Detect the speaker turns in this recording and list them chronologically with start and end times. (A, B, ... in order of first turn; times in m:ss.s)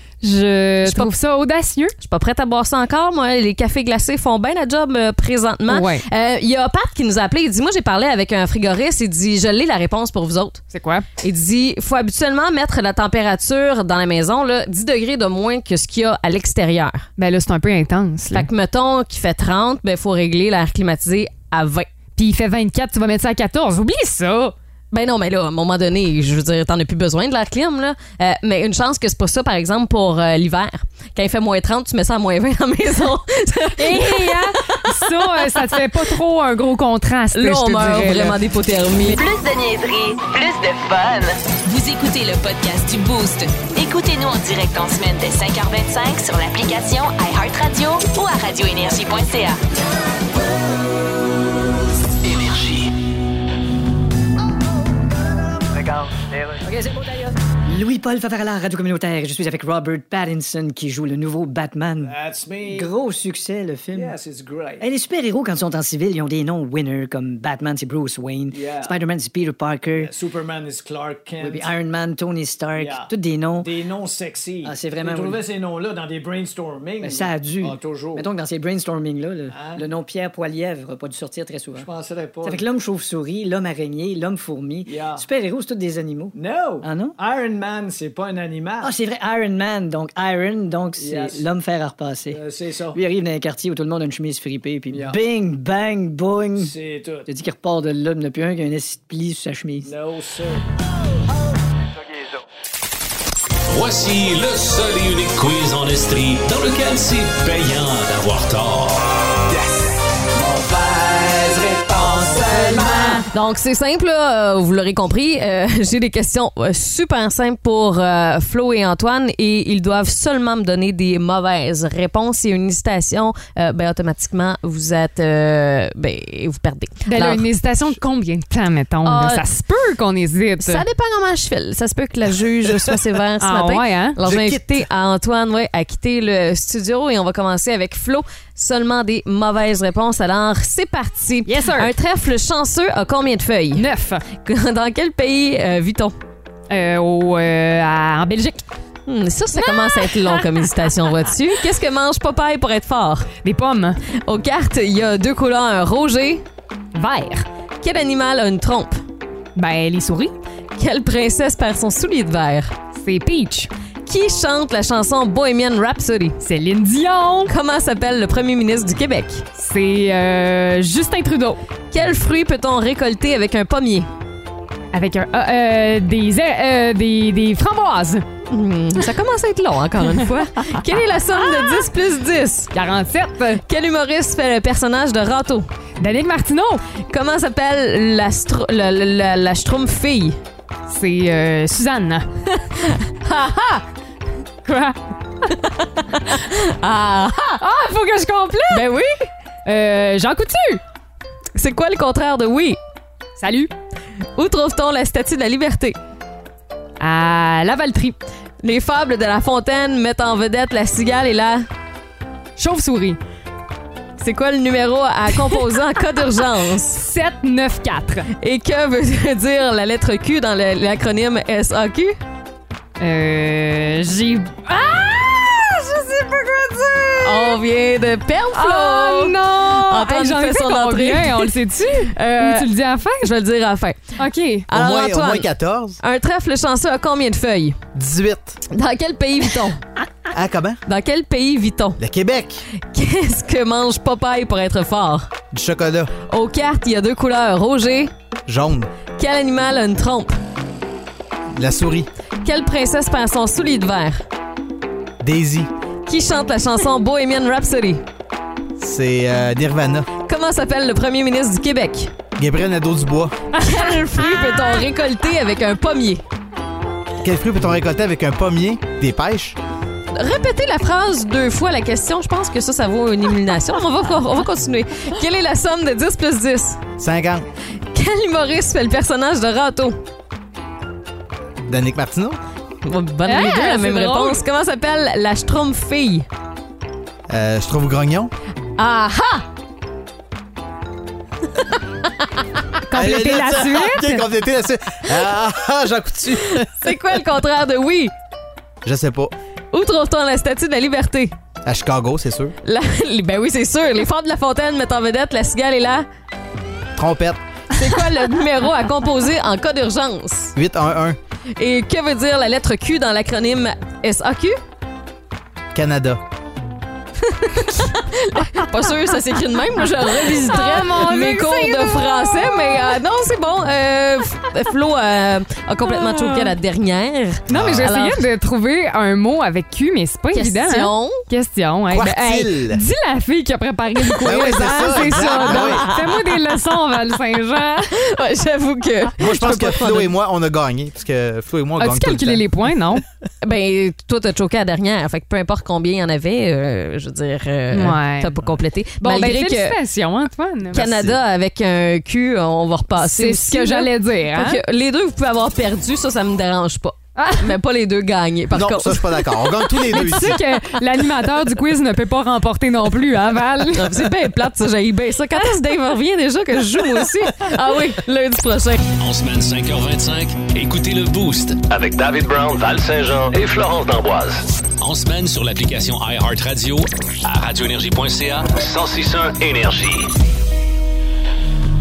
0:00.2-0:01.9 A
0:00.8-0:01.1 B
0:02.0-0:10.6 B
0:05.7-0:06.0 A
0:10.7-0:11.0 A
0:11.2-0:17.1 B
0:17.2-0:18.5 A
0:18.3-0:21.9 B
0:22.2-0:24.5 A
0:24.9-0:35.4 B
0:33.8-0:38.4 A
0:37.3-0:39.2 B
0:39.0-0:49.6 C
0:52.3-0:52.8 D
0:55.7-0:56.9 E
0:56.6-1:04.2 F
1:02.0-1:02.9 E
1:03.9-1:04.9 E
1:04.8-1:10.1 F
1:08.5-1:08.9 E
1:09.9-1:11.7 E
1:11.4-1:13.7 F
1:12.7-1:18.3 E
1:14.6-1:15.4 F
1:17.0-1:21.9 F
1:19.5-1:19.8 E
1:21.7-1:22.6 E
1:22.4-1:27.2 F
1:24.8-1:25.2 E
1:26.3-1:28.9 E
1:28.8-1:32.4 F
1:31.0-1:31.4 E
1:32.3-1:33.0 E
1:32.9-1:36.7 F
1:34.9-1:35.2 E
1:36.6-1:37.3 E
1:37.3-1:39.9 F
1:39.8-1:40.6 E
1:43.7-1:49.1 G
1:49.5-1:52.9 E
1:52.5-1:53.2 A
1:53.2-2:07.4 B
2:07.0-2:10.8 A
2:09.0-2:09.4 B
2:10.6-2:26.1 B
2:13.4-2:14.2 A
2:14.2-2:14.9 H
2:21.4-2:21.9 A
2:23.8-2:24.2 A
2:26.7-2:28.6 A
2:29.1-2:33.3 B
2:29.5-2:30.9 A
2:33.4-2:34.0 A
2:34.2-2:36.4 B
2:36.9-2:37.4 A
2:37.8-2:39.0 B
2:39.6-2:40.3 A
2:40.8-2:42.7 B
2:42.9-2:43.7 A
2:44.0-2:46.4 B
2:46.4-2:47.5 A
2:47.5-2:49.4 B
2:49.5-2:51.6 A
2:51.9-2:54.1 B
2:54.9-2:58.2 A
2:58.5-3:02.7 B
3:01.3-3:01.9 A
3:02.7-3:03.6 A
3:03.6-3:05.7 B
3:06.0-3:06.8 A
3:07.0-3:10.4 B
3:10.9-3:12.3 A
3:12.8-3:13.8 B
3:14.6-3:15.5 A
3:15.5-3:17.6 B
3:17.6-3:18.8 A
3:18.7-3:19.3 B
3:19.6-3:20.8 A
3:21.6-3:22.8 B
3:23.4-3:23.7 A
3:24.4-3:26.0 B
3:27.0-3:28.2 A
3:28.6-3:31.7 B
3:32.6-3:33.2 A
3:34.2-3:37.0 B
3:36.9-3:38.3 A
3:38.4-3:42.2 B
3:43.0-3:47.6 A
3:47.2-3:52.7 B
3:48.5-3:53.3 A
3:53.2-3:54.2 B
3:54.2-3:54.7 A
3:54.7-3:55.5 B
3:54.7-3:56.0 H
3:56.0-3:57.8 B
3:57.9-3:58.6 H
3:58.7-3:59.8 B
4:00.3-4:00.8 H
4:00.8-4:02.0 B
4:02.0-4:02.6 H
4:02.9-4:05.3 B
4:05.5-4:06.1 H
4:06.2-4:08.1 B
4:08.5-4:08.9 H
4:09.2-4:10.3 B
4:11.5-4:12.1 H
4:12.4-4:14.2 B
4:15.2-4:15.7 H
4:16.1-4:18.0 B
4:18.8-4:20.1 H
4:20.2-4:22.1 B
4:22.4-4:23.3 H
4:23.6-4:24.8 A
4:23.6-4:26.2 B
4:27.2-4:29.6 H
4:30.1-4:36.8 B
4:37.0-4:37.4 H
4:37.9-4:40.0 B
4:41.6-4:42.4 H
4:42.8-4:46.3 B
4:43.2-4:44.4 A
4:47.3-4:48.3 H
4:48.8-4:49.4 B
4:52.9-4:54.2 A
4:52.9-4:57.0 H
4:56.5-4:58.1 B
4:58.8-4:59.3 H
4:59.7-5:01.3 B
5:01.6-5:02.6 H
5:02.6-5:06.0 B
5:07.0-5:07.4 H
5:07.7-5:10.5 B
5:10.5-5:11.2 H
5:11.5-5:14.6 B
5:15.7-5:16.2 H
5:17.2-5:28.2 B
5:20.2-5:22.9 A
5:25.9-5:26.5 A
5:27.5-5:37.9 A
5:27.5-5:27.9 H
5:30.3-5:31.2 B
5:31.9-5:32.8 H
5:34.2-5:35.9 H
5:35.0-5:36.6 B
5:37.9-5:40.1 B
5:39.2-5:42.4 H
5:41.8-5:43.0 A
5:43.4-5:49.8 B
5:47.7-5:48.3 A
5:49.0-5:50.8 A
5:50.7-6:00.1 B
5:50.7-5:51.2 H
5:53.0-5:54.6 A
5:57.2-5:57.5 A
5:58.5-6:00.4 H
5:59.9-6:04.1 A
6:03.7-6:08.8 B
6:09.0-6:11.6 G
6:11.7-6:14.4 D
6:14.8-6:19.2 G
6:19.2-6:20.0 D